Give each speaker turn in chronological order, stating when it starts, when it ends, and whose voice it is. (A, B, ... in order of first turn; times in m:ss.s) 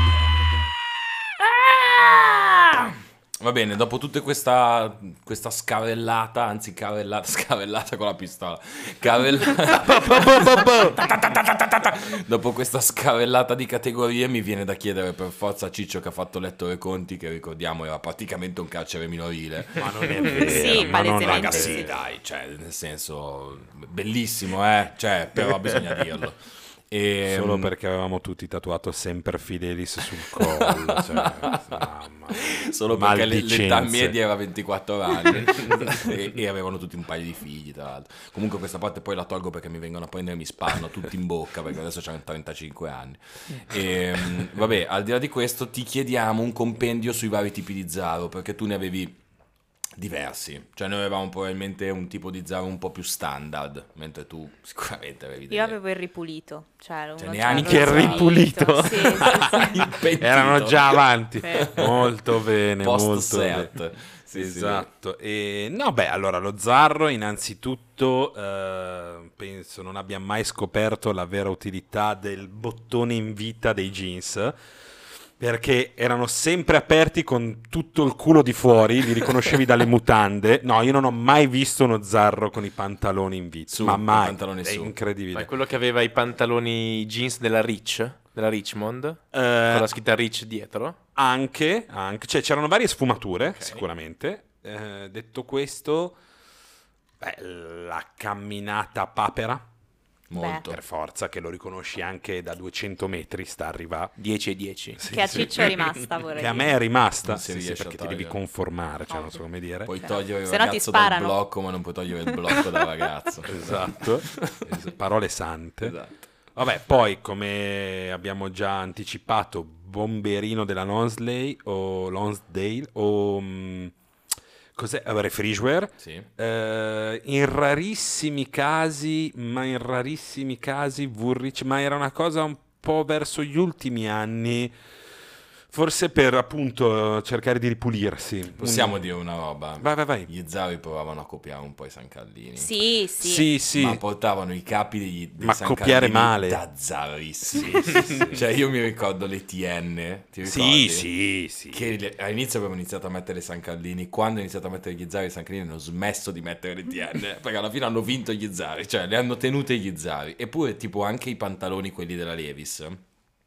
0:01.8-0:27.7 A
0:09.8-0:11.0 B
0:19.8-0:22.0 B
0:20.2-0:21.9 C
0:27.2-0:34.2 B
0:30.3-0:49.2 A
0:50.0-0:55.8 A
0:55.5-0:59.8 C
0:57.2-1:02.1 A
0:57.5-0:59.3 B
1:00.2-1:03.8 B
1:01.4-1:01.7 C
1:02.8-1:04.9 A
1:04.3-1:14.6 B
1:15.4-1:25.5 B
1:23.7-1:25.0 A
1:25.3-1:31.0 D
1:29.3-1:29.9 B
1:31.2-1:36.2 B
1:33.4-1:33.9 D
1:37.2-1:39.7 B
1:40.3-1:40.8 A
1:40.3-1:40.7 C
1:40.6-1:44.2 B
1:44.2-1:45.9 D
1:45.0-1:45.8 B
1:45.1-1:46.7 C
1:46.3-1:49.9 B
1:47.2-1:48.4 A
1:49.1-1:49.4 C
1:49.9-1:54.5 A
1:50.0-1:51.4 C
1:52.3-1:52.7 C
1:53.5-1:56.0 B
1:55.8-1:56.2 A
1:56.6-2:04.0 B
2:04.8-2:14.8 B
2:06.0-2:06.3 A
2:15.7-2:19.1 B
2:18.6-2:22.8 A
2:19.8-2:20.3 B
2:22.6-2:23.5 C
2:23.2-2:24.0 B
2:23.7-2:31.1 A
2:25.4-2:26.6 B
2:27.8-2:28.4 B
2:30.4-2:31.9 B
2:31.7-2:43.0 A